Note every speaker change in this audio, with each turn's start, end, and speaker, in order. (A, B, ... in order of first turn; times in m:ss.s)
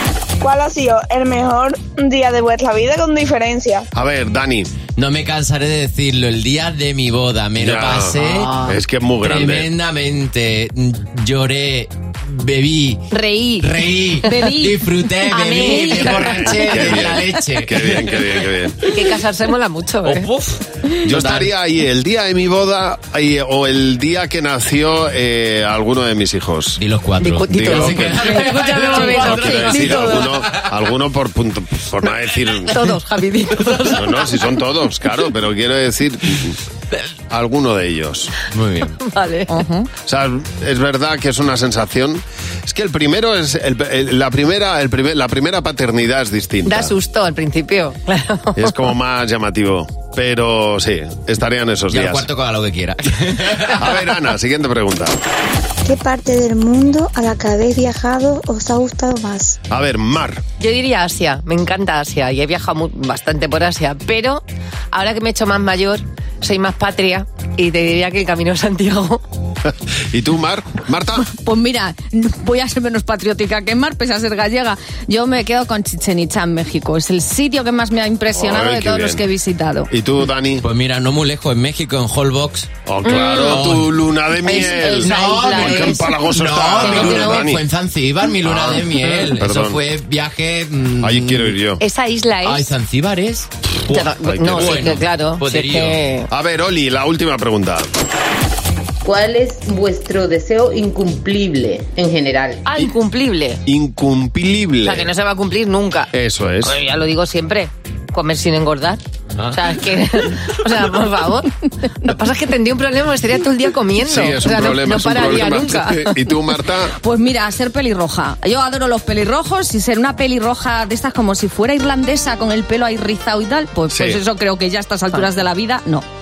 0:00.4-0:03.8 A
0:03.9-0:04.8 B
0:04.9-0:08.6 C
0:07.6-0:09.7 B
0:08.3-0:08.7 D
0:09.2-0:13.1 C
0:13.1-0:13.7 E
0:13.6-0:19.1 C
0:14.2-0:17.4 E
0:15.3-0:16.4 D
0:16.4-0:18.8 B
0:18.8-0:20.3 D
0:20.0-0:21.5 C
0:21.0-0:26.8 B
0:26.8-0:30.8 C
0:27.2-0:30.3 D
0:27.6-0:28.4 B
0:29.2-0:32.8 B
0:32.5-0:34.4 D
0:33.9-0:36.6 B
0:37.3-0:38.3 B
0:38.5-0:39.0 C
0:38.9-0:39.5 D
0:39.5-0:39.9 E
0:40.0-0:46.9 B
0:46.6-0:48.9 D
0:48.5-0:52.2 B
0:51.9-0:54.0 C
0:53.6-0:55.2 B
0:55.8-0:59.6 F
0:59.7-1:00.4 B
1:00.6-1:09.2 D
1:09.6-1:11.2 B
1:11.1-1:19.9 E
1:18.4-1:19.2 B
1:19.9-1:20.6 B
1:20.6-1:22.7 C
1:22.8-1:27.6 B
1:23.0-1:23.6 D
1:23.3-1:24.0 C
1:24.4-1:26.2 D
1:24.5-1:31.6 C
1:26.8-1:27.5 D
1:28.4-1:29.8 B
1:31.0-1:31.8 B
1:31.8-1:32.6 D
1:32.4-1:36.0 C
1:33.9-1:36.3 D
1:34.2-1:34.9 B
1:36.3-1:37.9 B
1:39.0-1:42.6 G
1:42.6-1:43.6 D
1:43.6-1:45.1 B
1:44.8-1:46.1 D
1:46.1-1:46.8 B
1:46.6-1:56.2 D
1:49.4-1:49.6 C
1:54.0-1:56.9 B
1:56.9-2:06.0 E
2:03.9-2:04.2 B